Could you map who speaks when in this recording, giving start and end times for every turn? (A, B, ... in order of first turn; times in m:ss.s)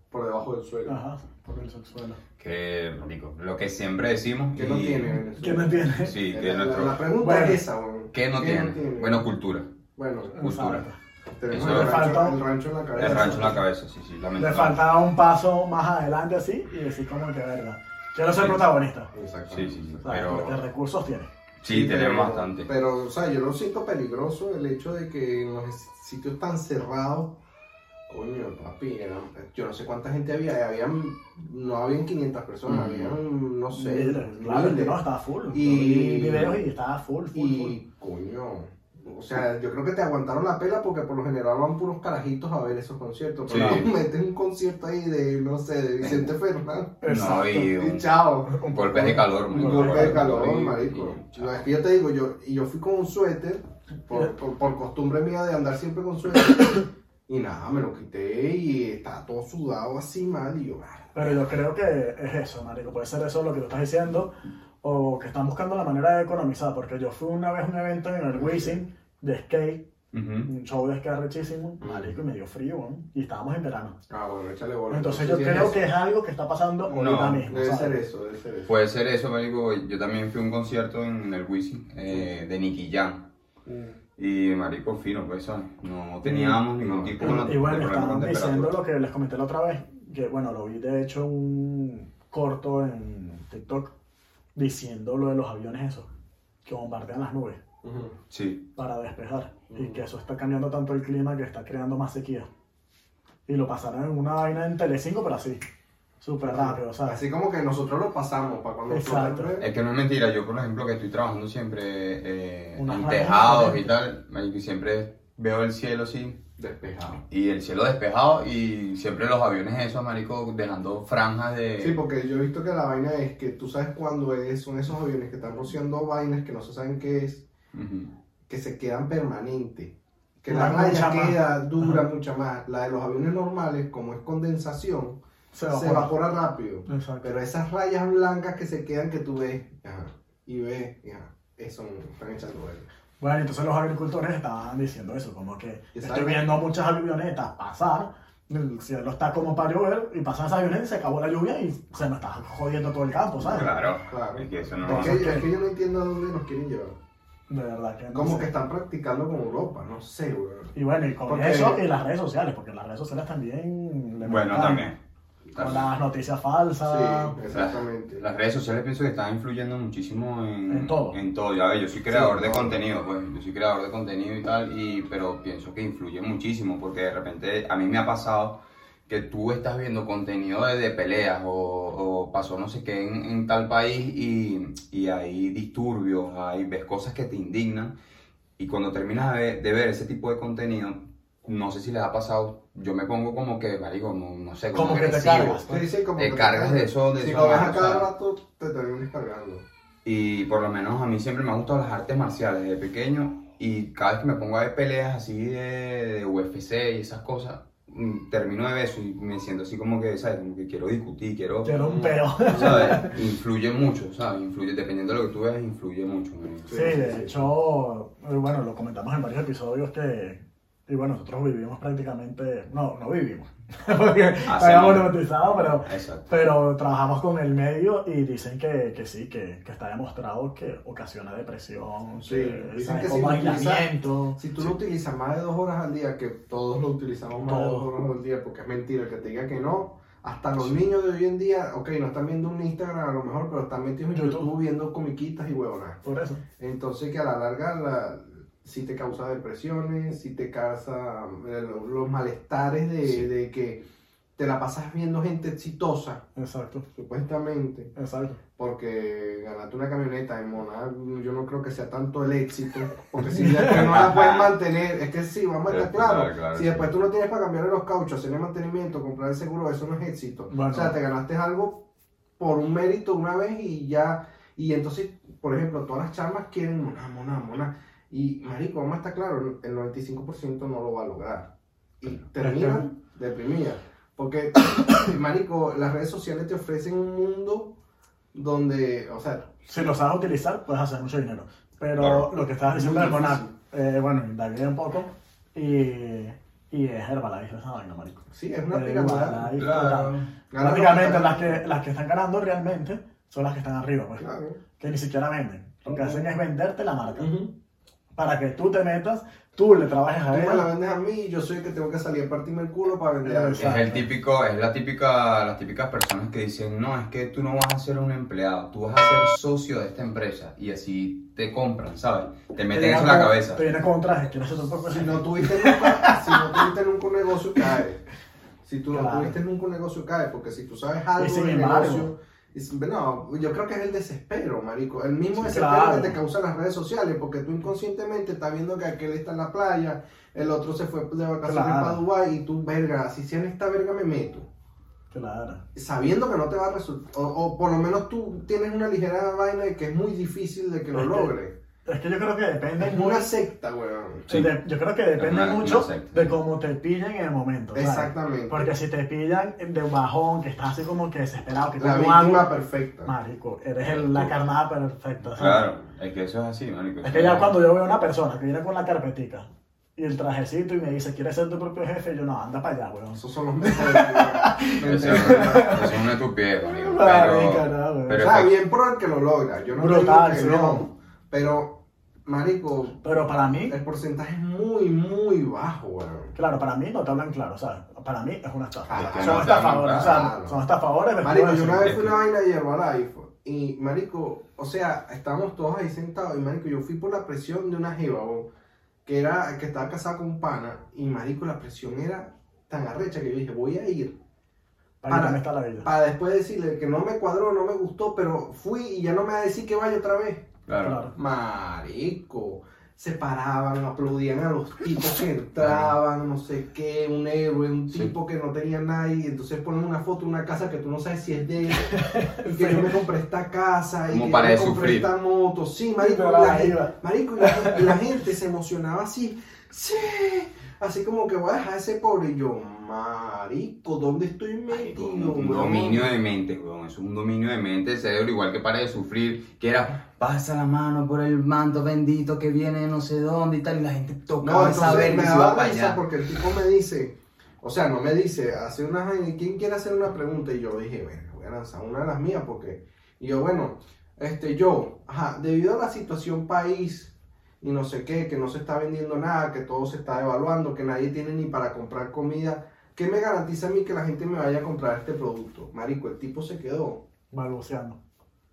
0:00.1-0:01.0 A
0:00.8-0:02.2 B
0:02.4-0:05.2 C
0:04.5-0:09.3 A
0:05.3-0:06.2 B
0:06.0-0:07.0 C
0:07.2-0:07.6 B
0:08.1-0:09.7 C
0:10.0-0:10.4 A
0:10.3-0:11.0 B
0:10.4-0:10.8 C
0:11.4-0:13.6 A
0:11.5-0:12.1 C
0:11.6-0:12.4 B
0:13.0-0:14.8 C
0:13.0-0:13.6 B
0:14.4-0:19.1 B
0:18.3-0:18.6 C
0:19.1-0:19.8 A
0:19.5-0:20.6 C
0:20.0-0:21.3 B
0:21.6-0:22.7 C
0:21.6-0:27.4 A
0:28.1-0:36.6 A
0:32.7-0:33.2 C
0:33.7-0:37.8 B
0:37.3-0:48.6 A
0:43.5-0:43.9 C
0:46.0-0:46.3 C
0:47.0-0:47.7 B
0:47.0-0:51.6 C
0:48.5-0:50.3 B
0:49.5-1:01.4 A
1:01.1-1:09.9 B
1:08.3-1:08.8 A
1:10.1-1:10.5 C
1:10.4-1:14.0 B
1:11.8-1:12.1 A
1:14.1-1:15.8 A
1:14.9-1:18.0 B
1:16.9-1:17.5 C
1:17.5-1:18.7 A
1:18.7-1:23.3 C
1:23.6-1:24.0 A
1:24.2-1:28.8 C
1:26.2-1:26.6 B
1:26.8-1:27.5 A
1:27.2-1:33.9 B
1:34.5-1:36.1 B
1:36.6-1:37.6 B
1:37.8-1:38.1 A
1:38.3-1:38.7 C
1:38.8-1:42.5 B
1:39.7-1:40.0 A
1:43.5-1:45.6 B
1:46.2-1:47.2 B
1:46.4-1:49.7 A
1:48.9-1:49.5 B
1:49.6-1:56.4 C
1:52.8-1:53.9 B
1:56.6-1:57.2 A
1:57.3-2:02.0 C
2:01.8-2:07.5 A
2:07.7-2:08.1 C
2:08.5-2:22.9 A
2:10.5-2:12.0 B
2:15.5-2:16.1 B
2:16.9-2:17.3 B
2:23.2-2:33.7 B
2:25.9-2:26.5 A
2:33.4-2:35.4 C
2:34.1-2:37.0 A
2:34.8-2:35.5 B
2:37.5-2:38.5 B
2:38.1-2:40.7 A
2:40.7-2:44.8 B
2:41.2-2:41.8 A
2:44.2-2:45.0 C
2:45.5-2:45.9 C
2:45.6-2:47.4 B
2:46.8-2:48.2 A
2:47.5-3:08.0 C
2:50.7-2:51.2 B
2:52.1-2:52.8 A
3:08.6-3:15.6 C
3:14.7-3:15.8 B
3:15.7-3:19.6 A
3:16.2-3:18.1 C
3:20.0-3:37.1 C
3:31.6-3:33.2 B
3:31.8-3:33.0 A
3:36.7-3:37.4 A
3:36.7-3:54.4 B
3:44.4-3:45.2 C
3:45.8-3:46.3 C
3:52.2-4:06.0 A
3:57.4-3:57.9 B
4:04.1-4:04.5 B
4:06.0-4:06.4 B
4:06.6-4:13.8 A
4:14.4-4:16.2 A
4:16.4-4:16.8 B
4:16.9-4:17.9 A
4:18.0-4:18.4 B
4:18.6-4:31.8 A
4:23.3-4:23.8 B
4:23.7-4:24.5 C
4:25.7-4:26.9 C
4:30.5-4:30.9 B
4:32.4-4:47.7 A
4:42.4-4:42.8 B
4:48.3-4:49.5 A
4:49.6-5:04.2 B
4:52.0-4:52.3 C
4:52.7-4:53.5 A
4:58.3-4:59.8 A
4:59.6-5:00.3 C
5:00.5-5:01.6 A
5:04.2-5:04.6 A
5:04.8-5:07.3 B
5:05.9-5:06.2 A
5:07.2-5:07.5 A
5:08.2-5:10.6 B
5:10.3-5:13.8 A
5:13.2-5:14.0 B
5:13.6-5:23.6 C
5:22.7-5:26.7 B
5:24.9-5:28.0 A
5:28.6-5:44.5 A
5:28.9-5:29.4 B
5:31.2-5:32.1 B
5:35.3-5:36.2 B
5:41.4-5:42.0 B
5:45.1-5:45.6 B
5:45.7-5:51.5 A
5:50.9-5:51.3 B
5:51.8-5:53.3 B
5:52.8-5:54.3 A
5:54.3-6:02.5 B
5:54.3-5:54.5 C
5:55.2-5:56.3 C
5:57.7-5:58.7 A
6:01.8-6:03.1 A
6:03.0-6:05.7 B
6:03.8-6:04.3 C
6:05.3-6:07.6 C
6:07.0-6:16.0 B
6:13.1-6:15.8 A
6:14.8-6:18.5 C
6:16.6-6:18.2 B
6:18.2-6:26.3 A
6:19.8-6:20.8 B
6:23.0-6:23.8 B
6:26.3-6:31.9 B
6:28.8-6:30.6 A
6:28.9-6:30.3 C
6:31.2-6:38.5 A
6:31.7-6:32.2 C
6:39.0-6:44.2 A
6:45.0-6:45.9 B
6:45.1-6:50.5 A
6:50.7-6:51.0 C
6:50.8-6:51.1 B
6:51.1-7:16.1 A
6:55.6-6:55.9 C
7:01.8-7:03.0 B
7:04.1-7:05.1 C
7:06.0-7:08.0 B
7:14.7-7:26.0 C
7:24.4-7:47.0 A
7:47.3-7:48.0 B